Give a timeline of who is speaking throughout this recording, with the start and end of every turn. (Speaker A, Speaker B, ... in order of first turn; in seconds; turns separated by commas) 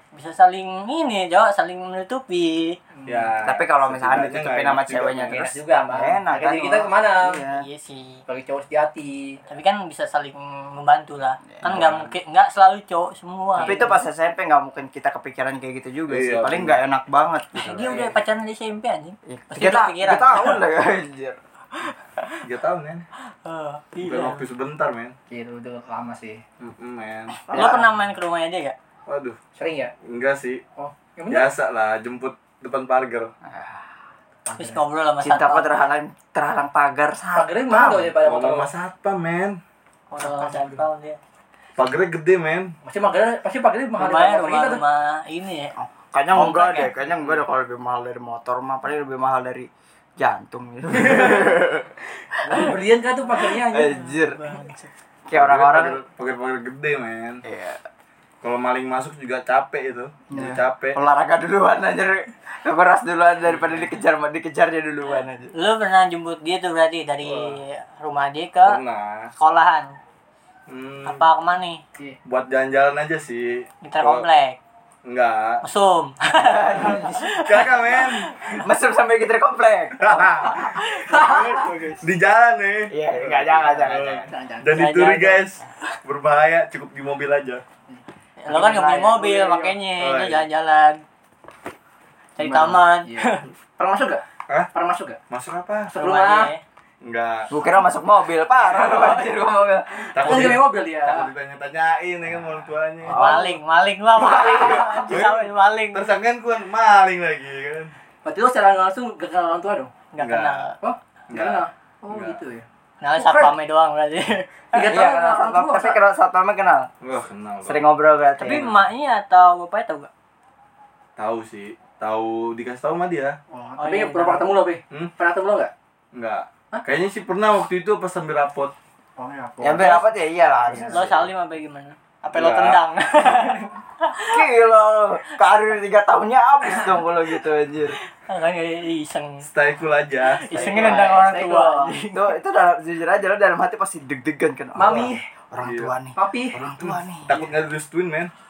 Speaker A: 0.1-2.8, Speaker B: 2.9-3.3, Speaker C: 3.1-5.5, Speaker D: 3.4-7.7, Speaker B: 5.4-7.4, Speaker A: 7.5-8.2, Speaker B: 8.3-9.4, Speaker A: 9.5-14.0, Speaker D: 11.5-11.8, Speaker C: 11.6-12.1, Speaker B: 13.6-13.9, Speaker D: 13.6-18.1, Speaker C: 16.1-16.8, Speaker A: 17.6-20.6, Speaker D: 19.3-21.4, Speaker A: 21.9-22.4, Speaker C: 22.4-23.1, Speaker A: 23.3-24.4, Speaker C: 24.0-25.1, Speaker B: 25.3-26.4, Speaker C: 26.6-27.4, Speaker D: 27.5-27.9, Speaker A: 27.5-28.8, Speaker C: 29.1-29.4, Speaker B: 29.6-29.9, Speaker C: 30.1-30.6, Speaker B: 30.8-31.5, Speaker C: 31.3-33.3, Speaker D: 33.4-33.9, Speaker B: 34.5-34.8, Speaker A: 34.5-35.9, Speaker D: 35.2-38.1, Speaker B: 37.3-38.7, Speaker C: 38.2-39.6, Speaker A: 40.1-41.2, Speaker B: 40.2-40.8, Speaker C: 41.8-42.8, Speaker B: 42.8-44.8, Speaker A: 44.0-45.7, Speaker D: 45.8-52.8, Speaker A: 46.3-46.9, Speaker B: 51.0-51.6, Speaker B: 52.4-54.0, Speaker D: 53.4-54.5, Speaker A: 53.8-54.9, Speaker D: 55.3-56.0, Speaker C: 55.3-57.4, Speaker D: 57.4-57.8, Speaker C: 58.4-61.0, Speaker D: 60.3-65.5, Speaker A: 65.5-68.8, Speaker C: 67.3-67.5, Speaker C: 68.7-69.3, Speaker A: 69.4-69.9, Speaker C: 70.7-71.2, Speaker A: 71.0-71.8, Speaker C: 72.3-74.3, Speaker A: 73.8-74.6, Speaker C: 75.1-75.6, Speaker A: 75.6-78.5, Speaker D: 76.4-77.4, Speaker C: 77.4-78.3, Speaker D: 78.6-82.0, Speaker C: 80.0-87.6, Speaker A: 80.5-81.6, Speaker B: 81.2-81.6, Speaker D: 82.9-84.3, Speaker B: 84.3-84.7, Speaker A: 84.7-85.5, Speaker B: 87.9-89.8, Speaker A: 88.4-91.0, Speaker C: 90.0-90.5, Speaker A: 92.4-93.5, Speaker B: 92.4-95.2, Speaker C: 95.3-95.9, Speaker B: 95.9-96.5, Speaker A: 95.9-96.6, Speaker C: 97.0-97.5, Speaker D: 97.5-100.6, Speaker C: 100.2-103.3, Speaker B: 100.2-101.3, Speaker D: 103.1-103.5, Speaker B: 103.1-103.5, Speaker A: 103.1-106.1, Speaker D: 104.2-104.8, Speaker B: 104.3-105.0, Speaker C: 104.9-107.9, Speaker B: 108.2-109.9, Speaker A: 110.1-110.8, Speaker C: 110.2-110.7, Speaker B: 110.8-112.7, Speaker C: 111.3-112.4, Speaker A: 113.0-114.9, Speaker B: 113.2-113.5, Speaker B: 114.7-116.0, Speaker D: 114.9-116.9, Speaker C: 117.0-117.9, Speaker D: 117.7-118.8, Speaker A: 118.4-120.1, Speaker C: 121.2-123.4, Speaker B: 123.5-125.7, Speaker A: 123.8-124.5, Speaker C: 126.1-128.7, Speaker B: 129.2-130.0, Speaker D: 129.6-131.3, Speaker B: 130.7-130.9, Speaker A: 130.9-134.4, Speaker C: 132.3-132.8, Speaker D: 134.2-138.0, Speaker A: 138.2-139.5, Speaker C: 139.4-140.5, Speaker A: 140.3-142.3, Speaker D: 140.5-147.4, Speaker B: 140.5-141.9, Speaker B: 144.8-145.3, Speaker C: 145.6-145.9, Speaker B: 146.2-146.6, Speaker C: 146.8-148.3